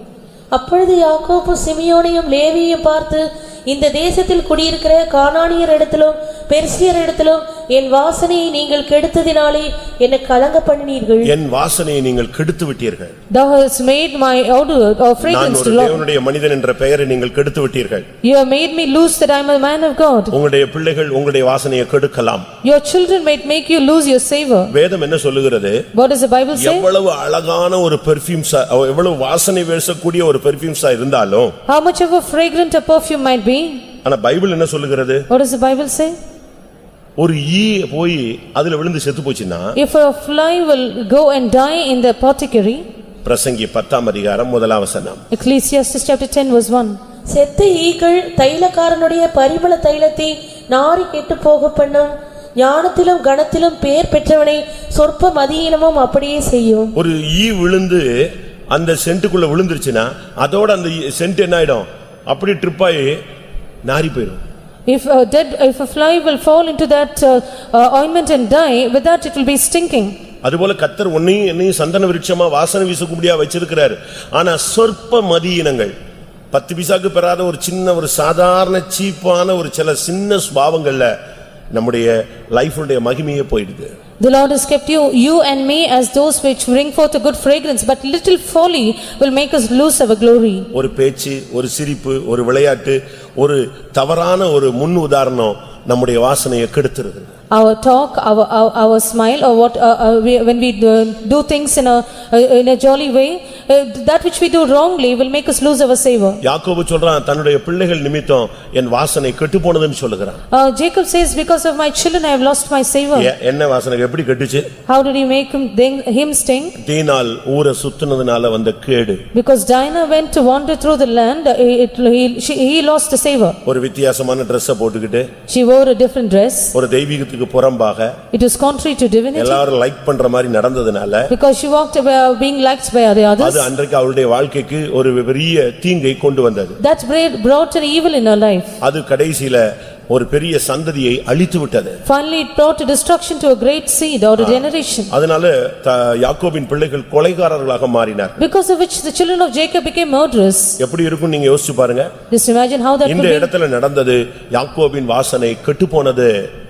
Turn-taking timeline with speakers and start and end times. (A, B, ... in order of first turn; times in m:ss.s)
0:00.5-0:11.3 A
0:11.2-0:13.1 B
0:13.3-0:16.0 C
0:15.2-0:18.1 B
0:18.2-0:20.3 C
0:20.3-0:22.5 B
0:22.6-0:24.7 C
0:24.7-0:25.8 B
0:25.9-0:26.9 C
0:26.5-0:31.5 B
0:31.7-0:33.8 C
0:34.0-0:35.3 B
0:35.3-0:36.2 C
0:37.2-0:39.8 B
0:39.8-0:42.8 C
0:43.2-0:45.2 B
0:45.3-0:47.0 C
0:47.3-0:57.0 A
0:57.0-1:03.2 B
1:03.8-1:04.4 B
1:04.9-1:10.2 C
1:10.4-1:15.9 B
1:16.5-1:21.1 B
1:21.7-1:23.9 B
1:24.2-1:30.7 C
1:30.7-1:37.3 B
1:37.5-1:46.4 C
1:46.4-1:50.4 B
1:50.5-1:53.3 C
1:53.2-1:54.7 B
1:54.9-1:56.8 C
1:56.8-1:59.2 B
1:59.3-2:03.6 C
2:03.6-2:05.3 B
2:05.5-2:06.7 C
2:06.7-2:08.1 B
2:08.3-2:09.6 C
2:09.3-2:11.3 B
2:11.3-2:13.7 C
2:13.4-2:16.8 B
2:16.8-2:18.7 C
2:18.8-2:22.0 B
2:22.0-2:25.1 C
2:24.4-2:28.4 B
2:28.4-2:30.8 C
2:30.8-2:32.1 B
2:32.3-2:33.5 C
2:33.0-2:36.3 B